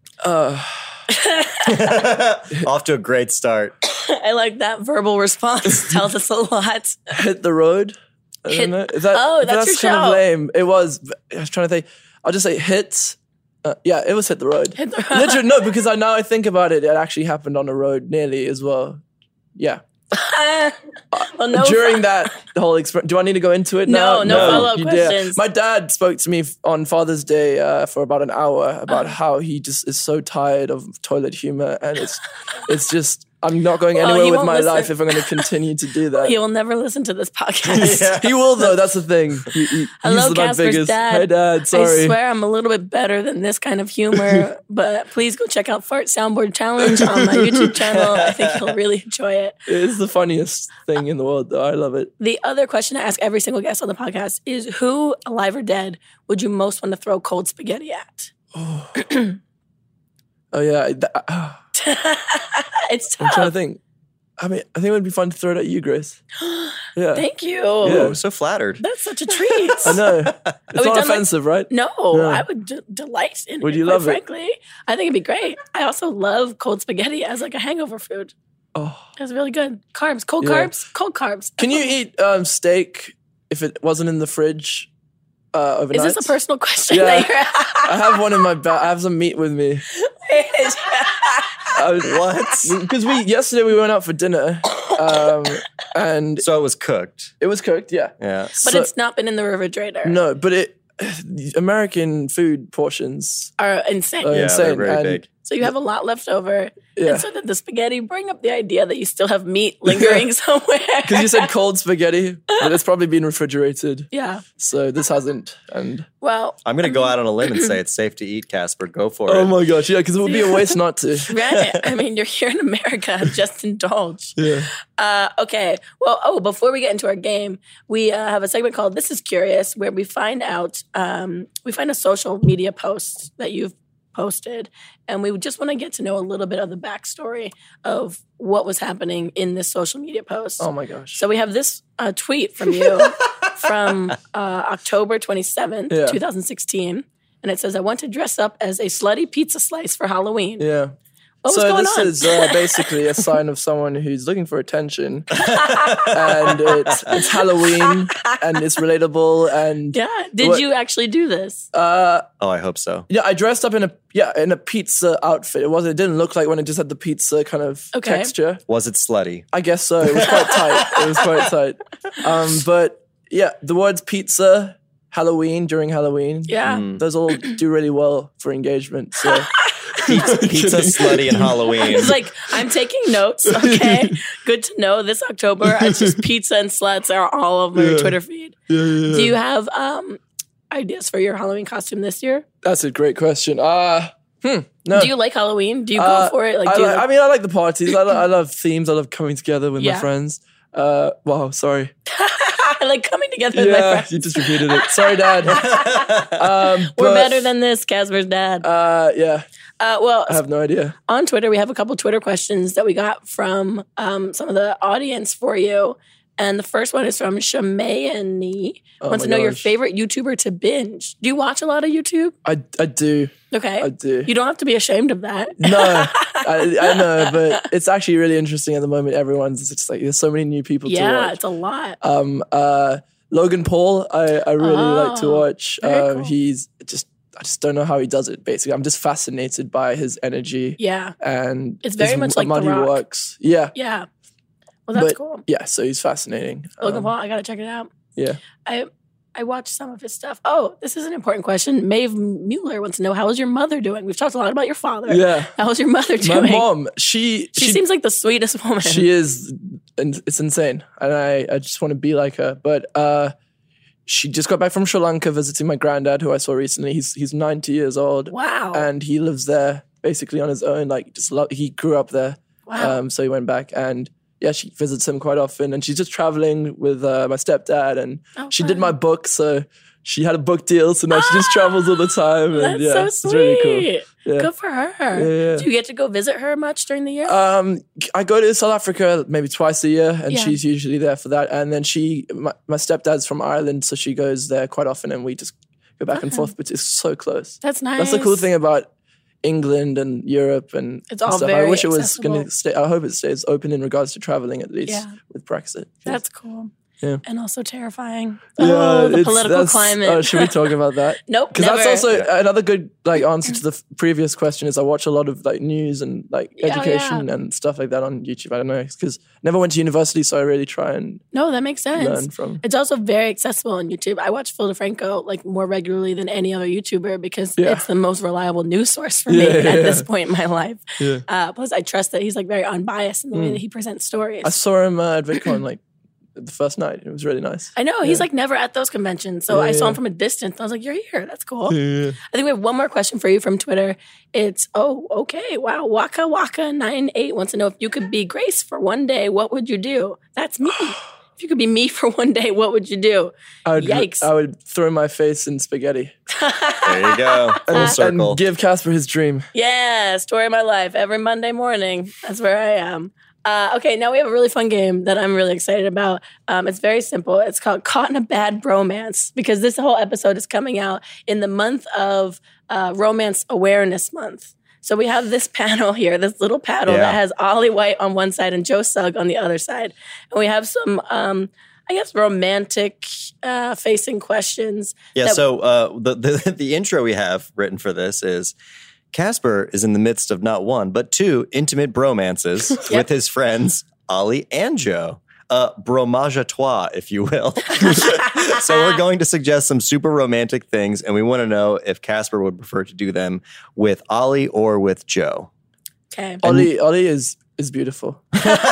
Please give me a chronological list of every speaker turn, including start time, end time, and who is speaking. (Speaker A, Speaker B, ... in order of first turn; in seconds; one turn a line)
Speaker A: 0.2-1.0
Speaker B: 1.1-1.9
Speaker C: 1.6-3.7
Speaker B: 3.8-7.2
Speaker A: 7.1-19.0
Speaker B: 8.5-10.2
Speaker B: 14.8-15.6
Speaker A: 19.6-19.8
Speaker B: 20.1-22.1
Speaker A: 21.1-36.4
Speaker B: 23.9-25.4
Speaker C: 24.2-24.7
Speaker B: 33.9-35.5
Speaker B: 36.1-38.6
Speaker C: 37.7-38.3
Speaker A: 37.7-42.2
Speaker B: 40.0-49.6
Speaker A: 46.9-47.8
Speaker A: 49.7-52.1
Speaker B: 52.2-58.3
Speaker A: 58.5-59.3
Speaker A: 60.5-61.6
Speaker B: 61.7-63.5
Speaker A: 63.2-63.8
Speaker A: 64.4-66.2
Speaker B: 66.4-68.2
Speaker A: 66.9-67.3
Speaker A: 67.8-68.2
Speaker C: 67.8-68.8
Speaker B: 68.8-70.1
Speaker A: 69.8-72.4
Speaker B: 70.7-78.3
Speaker A: 73.6-74.2
Speaker A: 78.7-79.1
Speaker B: 79.2-81.9
Speaker A: 80.4-80.8
Speaker A: 81.6-84.9
Speaker A: 85.5-86.3
Speaker B: 85.9-88.4
Speaker A: 86.9-89.8
Speaker B: 90.0-91.8
Speaker A: 91.7-96.5
Speaker C: 92.0-92.8
Speaker C: 96.4-97.3
Speaker A: 97.4-98.9
Speaker C: 98.2-98.5
Speaker B: 98.6-100.2
Speaker A: 100.0-103.5
Speaker B: 103.6-104.4
Speaker A: 104.2-105.3
Speaker C: 104.3-105.2
Speaker B: 105.4-111.5
Speaker A: 106.9-107.3
Speaker A: 109.9-110.2
Speaker A: 111.0-116.1
Speaker B: 114.1-114.4
Speaker B: 116.2-117.7
Speaker C: 116.6-119.5
Speaker A: 119.3-121.4
Speaker B: 120.3-120.8
Speaker B: 121.3-150.6
Speaker A: 124.4-124.7
Speaker A: 140.6-141.2
Speaker A: 145.9-146.2
Speaker A: 150.6-150.9
Speaker B: 151.4-153.3
Speaker A: 151.5-155.5
Speaker C: 155.4-156.2
Speaker B: 155.5-156.2
Speaker A: 156.0-160.6
Speaker C: 156.8-157.1
Speaker B: 157.1-158.1
Speaker B: 159.9-161.7
Speaker A: 161.7-162.2
Speaker C: 162.4-163.1
Speaker A: 163.1-168.6
Speaker B: 167.9-168.3
Speaker C: 168.7-169.4
Speaker A: 169.5-182.1
Speaker B: 170.2-171.1
Speaker B: 176.5-176.8
Speaker C: 176.6-177.0
Speaker B: 179.2-180.3
Speaker C: 180.0-182.2
Speaker B: 181.8-190.2
Speaker A: 183.4-184.2
Speaker A: 185.7-186.2
Speaker A: 187.7-188.2
Speaker A: 188.7-189.3
Speaker B: 190.7-192.4
Speaker A: 192.6-195.1
Speaker B: 194.9-197.1
Speaker A: 195.9-201.9
Speaker B: 199.8-200.1
Speaker B: 202.1-208.7
Speaker A: 203.5-207.5
Speaker C: 205.6-206.3
Speaker A: 208.6-209.4
Speaker B: 209.8-210.4
Speaker A: 210.3-210.9
Speaker B: 211.1-222.3
Speaker A: 219.0-219.7
Speaker A: 222.4-224.3
Speaker B: 223.5-227.7
Speaker A: 225.6-231.4
Speaker B: 230.8-232.0
Speaker A: 232.0-243.7
Speaker B: 234.6-236.3
Speaker B: 240.8-241.1
Speaker B: 241.8-243.0
Speaker B: 243.7-244.1
Speaker B: 244.9-245.4
Speaker A: 244.9-247.1
Speaker B: 246.8-247.9
Speaker A: 248.2-248.4
Speaker B: 248.6-256.7
Speaker A: 255.1-255.5
Speaker A: 256.2-257.8
Speaker B: 257.5-259.1
Speaker A: 258.8-263.3
Speaker A: 264.1-284.5
Speaker B: 268.3-268.9
Speaker B: 272.7-273.0
Speaker B: 278.4-278.9
Speaker B: 281.1-287.4
Speaker A: 285.1-285.7
Speaker A: 287.3-298.9
Speaker B: 290.3-290.6
Speaker B: 296.1-296.5
Speaker B: 297.6-298.4
Speaker A: 299.4-306.2
Speaker B: 301.1-302.5
Speaker B: 304.9-305.1
Speaker B: 306.0-306.7
Speaker B: 307.2-310.7
Speaker A: 308.6-321.3
Speaker B: 311.3-312.2
Speaker B: 316.6-317.2
Speaker B: 321.3-334.6
Speaker A: 321.9-322.6
Speaker A: 327.6-327.9
Speaker A: 329.3-330.1
Speaker A: 333.3-333.6
Speaker A: 334.4-335.8
Speaker A: 336.4-338.2
Speaker B: 337.8-354.3
Speaker A: 339.5-340.0
Speaker A: 341.7-342.2
Speaker A: 353.6-356.1
Speaker B: 356.3-358.0
Speaker C: 356.8-358.4
Speaker A: 357.7-359.4
Speaker B: 359.5-385.4
Speaker C: 376.9-377.2
Speaker C: 385.1-388.5
Speaker C: 389.1-405.5
Speaker B: 397.8-399.0
Speaker B: 406.1-406.4
Speaker A: 406.4-408.5
Speaker C: 406.4-406.7